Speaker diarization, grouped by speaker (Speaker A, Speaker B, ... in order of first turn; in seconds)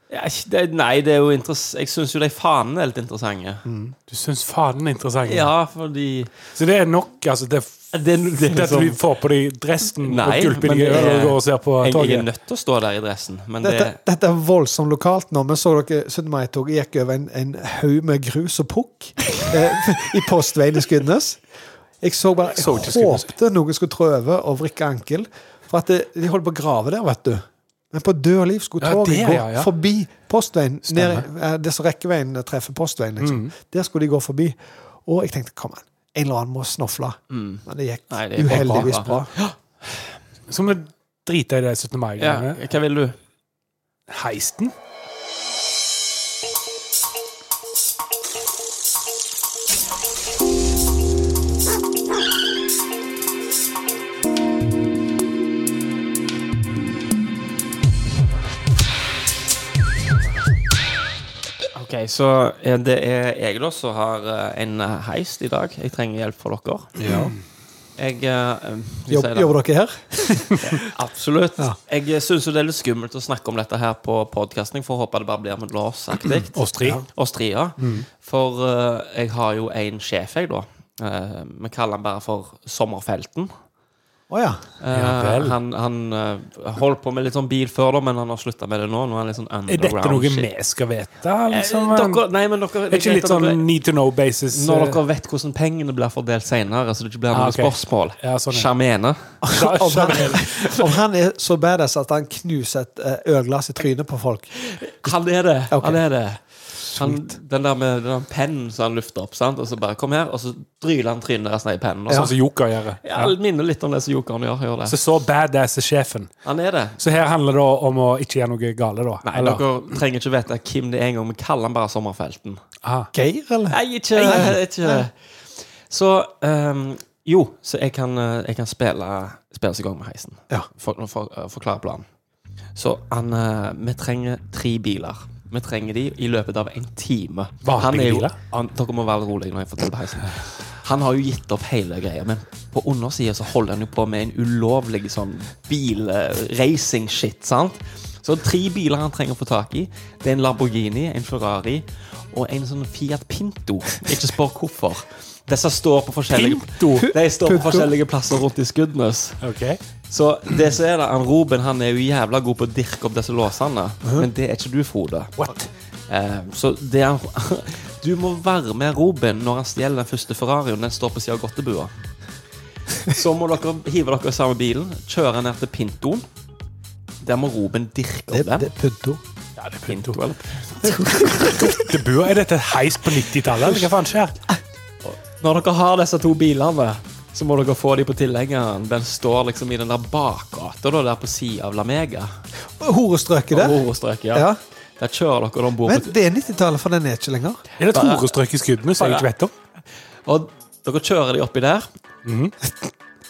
Speaker A: 0.1-3.6, 5.2-6.3, 7.9-9.0, 10.0-14.0, 37.3-39.5, 42.2-43.2, 61.8-66.9, 68.0-69.5, 70.8-83.5, 84.8-90.5, 91.5-93.6, 94.5-99.4, 104.6-112.3, 113.0-115.0, 116.5-117.0, 119.2-122.6, 123.7-132.1, 132.8-159.4, 160.1-165.4, 166.1-171.9, 173.1-176.2, 177.2-178.7, 179.9-181.8, 185.0-192.3, 193.5-196.1, 197.9-198.3, 199.0-199.3, 200.3-201.9
Speaker B: 3.6-4.0, 13.6-21.4, 22.0-39.3, 67.0-67.3, 69.1-70.8, 84.3-84.7, 99.4-104.5, 105.7-106.0, 106.8-107.3, 123.1-125.0, 157.0-157.9, 178.3-179.2, 192.8-194.6, 195.8-197.6
Speaker C: 4.1-5.5, 6.5-12.3, 22.6-23.3, 28.8-29.7, 30.9-31.2, 33.2-33.5, 38.6-38.9, 40.5-42.6, 44.1-44.7, 67.0-67.4, 76.5-77.0, 77.8-78.1, 84.9-85.6, 89.7-92.2, 92.9-95.0, 97.3-98.7, 99.5-100.5, 112.1-113.3, 114.9-116.3, 117.0-120.0, 122.8-123.1, 137.6-138.4, 156.3-157.1, 159.4-159.8, 165.4-165.7, 179.6-180.2, 181.3-184.4, 197.8-199.5, 202.2-202.5